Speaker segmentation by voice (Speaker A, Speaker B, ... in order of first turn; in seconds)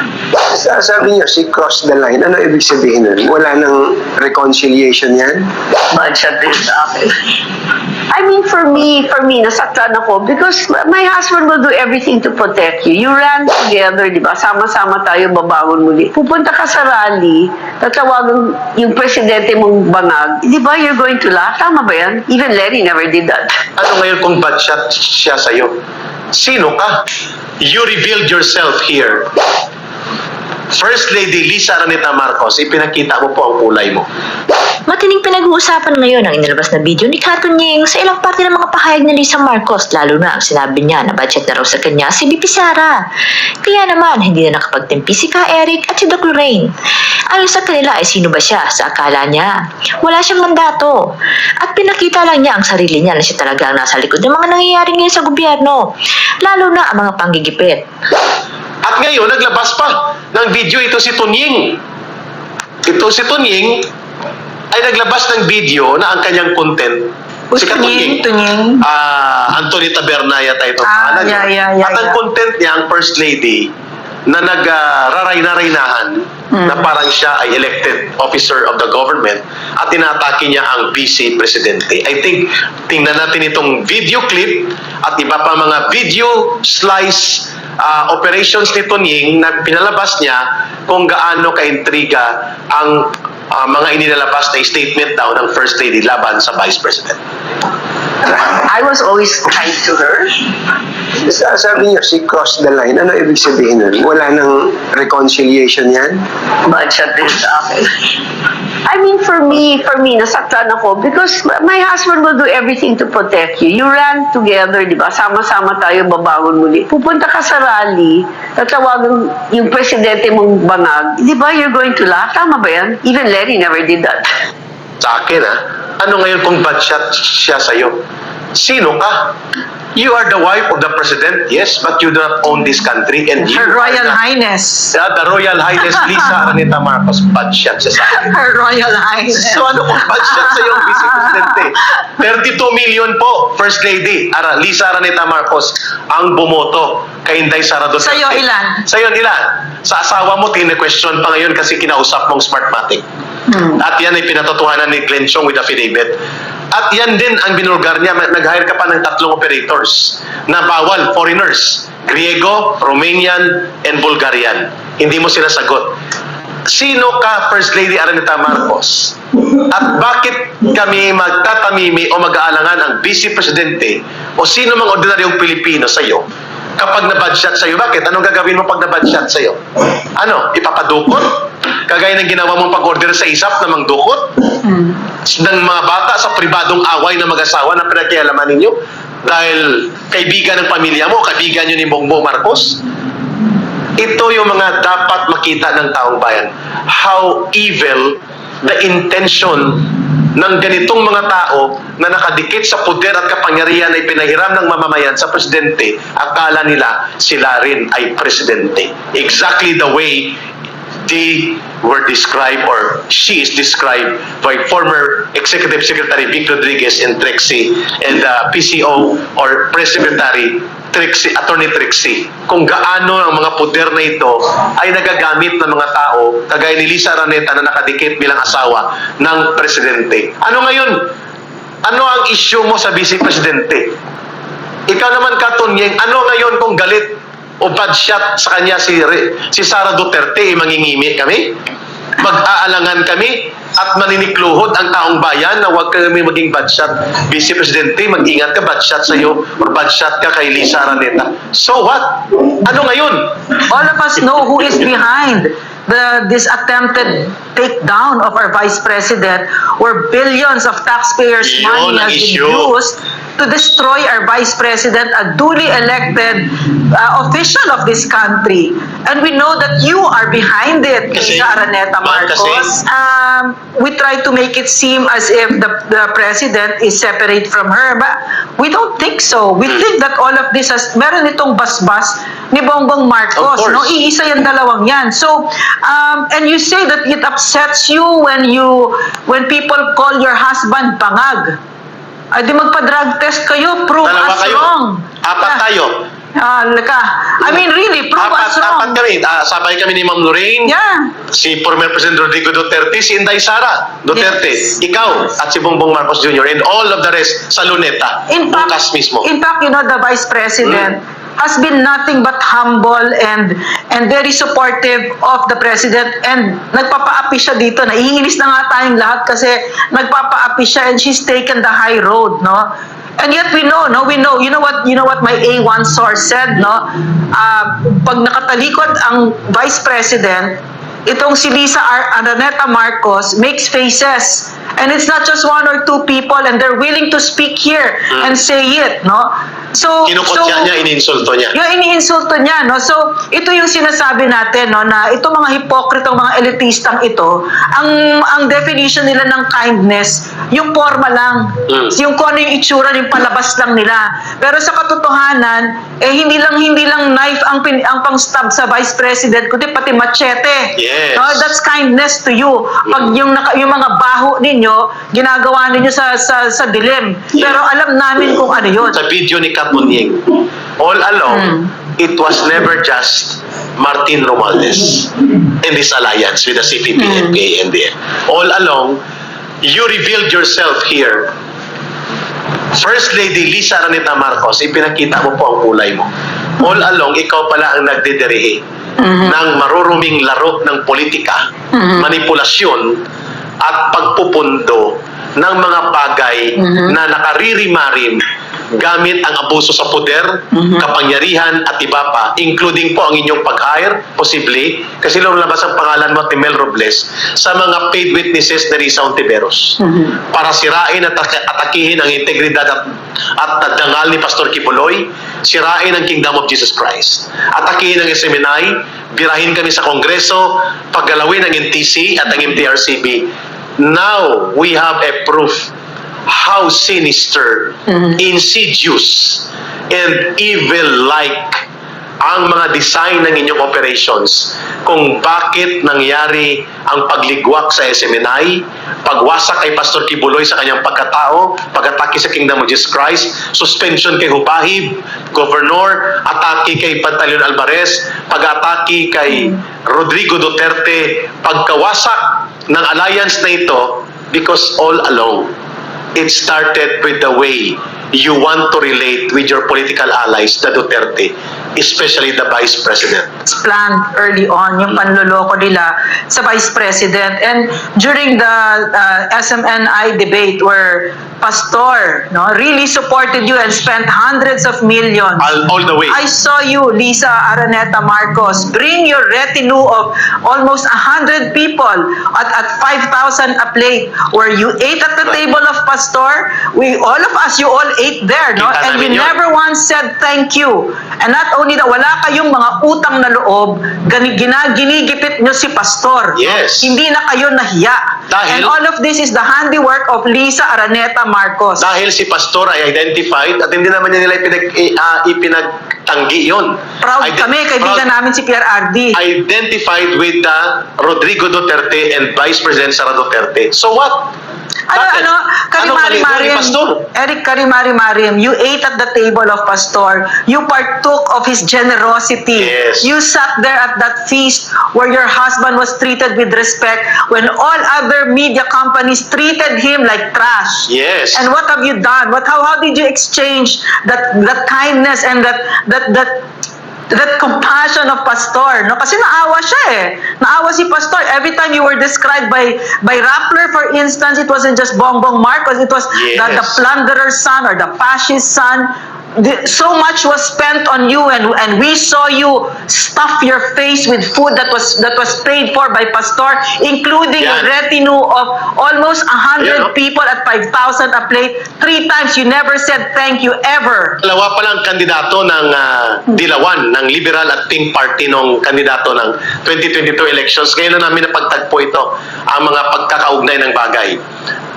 Speaker A: 0.3-5.5, 101.2-106.2
Speaker B: 5.9-7.1, 8.1-23.7, 98.3-100.5, 106.7-107.9, 108.9-124.2
Speaker C: 23.8-25.7, 26.3-27.0, 27.6-29.4, 30.7-34.1, 58.8-61.8, 62.9-63.9, 64.7-68.3, 68.8-73.7, 74.3-97.2, 125.0-128.0, 128.5-129.3, 129.9-134.2, 134.9-138.3, 139.5-153.0, 153.8-156.2, 156.7-165.9, 166.7-169.2, 169.7-176.2, 176.8-184.4, 185.2-192.8, 194.0-210.4, 211.0-231.1, 231.8-233.9, 234.9-241.5, 242.2-253.5, 261.4-262.7, 271.1-272.8, 283.4-283.9, 294.0-294.7, 295.2-296.0, 298.2-300.7, 301.3-309.3, 340.1-341.5, 360.8-361.4, 368.9-371.5, 372.0-379.0, 379.6-381.3, 382.7-388.6, 389.2-391.4, 392.0-393.0, 393.6-398.2, 398.8-409.8, 410.3-425.7, 426.3-431.6, 432.2-455.5, 456.1-463.3, 475.4-476.2, 488.6-489.4, 496.4-496.9, 498.3-498.7, 501.8-508.1, 509.1-514.3, 514.9-517.0, 522.6-523.1, 530.9-531.5, 546.1-546.8, 557.4-557.7, 559.6-559.9, 564.2-574.2
Speaker D: 34.9-43.0, 43.6-46.7, 47.3-51.0, 51.6-55.9, 56.4-57.8
Speaker E: 67.5-68.8, 70.8-72.2, 76.5-76.9, 133.4-134.9, 135.8-136.3, 138.0-141.7, 148.0-148.8, 153.5-153.8, 184.6-185.0, 253.7-291.6, 292.3-295.6, 296.3-299.0, 300.6-301.1, 304.1-305.1, 308.3-322.7, 323.2-340.7, 341.5-369.0, 371.3-371.7, 377.0-377.4, 389.0-389.4, 391.7-392.1, 396.6-396.9, 400.5-400.9, 409.8-410.1, 463.4-475.5, 476.1-501.9, 507.0-509.1, 514.9-536.3, 537.1-564.2